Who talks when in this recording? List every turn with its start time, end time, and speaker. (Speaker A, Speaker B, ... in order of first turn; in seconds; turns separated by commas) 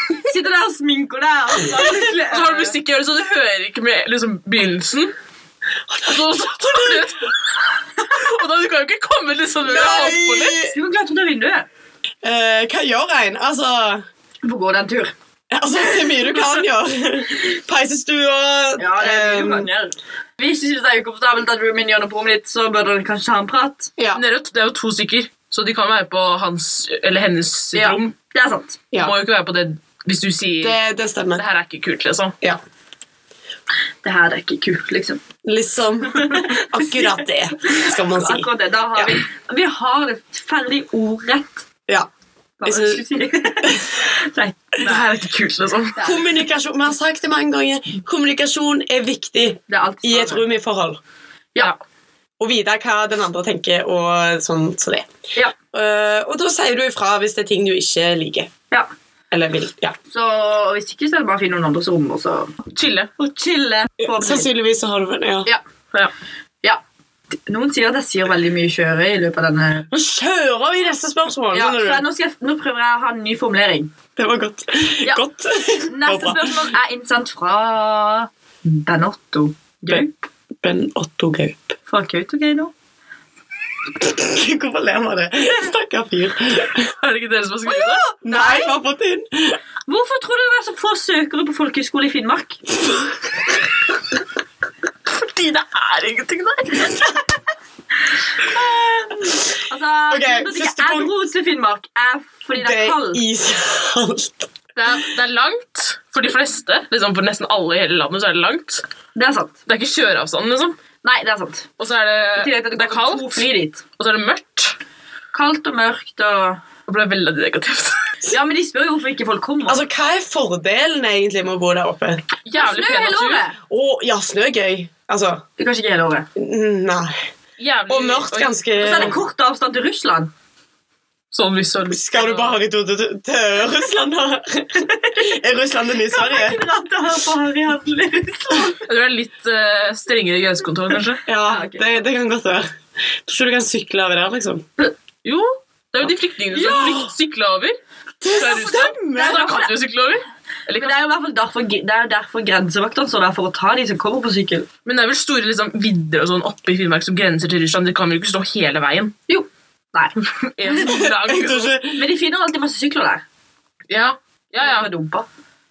Speaker A: 0.3-2.8, Speaker B: 1.8-5.1, Speaker C: 5.9-7.1, Speaker B: 6.1-7.4, Speaker B: 8.0-10.6, Speaker C: 9.6-10.8, Speaker A: 10.6-11.7, Speaker C: 12.2-14.1, Speaker A: 14.4-15.1, Speaker C: 15.5-19.7, Speaker A: 18.8-23.9, Speaker C: 24.0-24.2, Speaker B: 24.1-28.1, Speaker A: 27.7-28.8, Speaker B: 29.0-30.8, Speaker C: 30.6-31.4, Speaker B: 31.4-32.4, Speaker A: 34.0-35.2, Speaker C: 35.4-39.2, Speaker A: 36.1-36.6, Speaker A: 37.6-41.6, Speaker A: 42.6-45.1, Speaker C: 42.6-43.0, Speaker B: 44.8-46.1, Speaker A: 46.0-46.2, Speaker C: 46.0-51.0, Speaker A: 49.7-50.5, Speaker C: 52.4-55.1, Speaker C: 55.7-58.5, Speaker C: 59.3-60.0, Speaker A: 60.1-62.6, Speaker B: 62.7-63.1, Speaker A: 63.2-64.5, Speaker C: 64.0-65.5, Speaker A: 67.5-69.9, Speaker C: 69.9-72.0, Speaker A: 71.5-73.9, Speaker C: 74.2-76.7, Speaker A: 75.9-80.2, Speaker C: 80.6-81.7, Speaker A: 81.9-82.7, Speaker C: 84.0-86.9, Speaker B: 87.0-88.0, Speaker A: 87.7-88.8, Speaker C: 88.2-89.6, Speaker A: 89.9-92.6, Speaker B: 95.1-97.1, Speaker A: 98.4-103.2, Speaker C: 100.1-101.2, Speaker C: 102.6-104.5, Speaker B: 104.8-108.8, Speaker A: 109.2-109.6, Speaker B: 109.7-110.8, Speaker A: 111.0-111.7, Speaker B: 111.8-114.8, Speaker A: 112.4-113.8, Speaker A: 115.3-116.6, Speaker B: 116.9-118.1, Speaker A: 118.3-119.8, Speaker C: 119.7-122.2, Speaker B: 122.5-123.4, Speaker A: 122.5-123.6, Speaker C: 123.7-125.4, Speaker A: 125.6-126.3, Speaker C: 126.4-127.2, Speaker B: 127.6-129.2, Speaker C: 127.9-129.2, Speaker A: 128.8-130.3, Speaker B: 131.3-132.6, Speaker C: 131.9-136.6, Speaker A: 134.8-135.3, Speaker A: 136.0-138.8, Speaker B: 138.8-141.2, Speaker C: 141.3-142.7, Speaker A: 141.4-142.0, Speaker C: 143.3-144.7, Speaker B: 145.2-147.8, Speaker C: 146.6-147.1, Speaker C: 148.2-149.4, Speaker B: 148.3-151.0, Speaker A: 148.7-149.8, Speaker A: 150.7-154.7, Speaker B: 154.8-159.2, Speaker A: 159.3-160.2, Speaker B: 160.2-161.8, Speaker C: 160.8-162.0, Speaker A: 161.9-163.2, Speaker B: 163.9-164.9, Speaker A: 164.6-165.3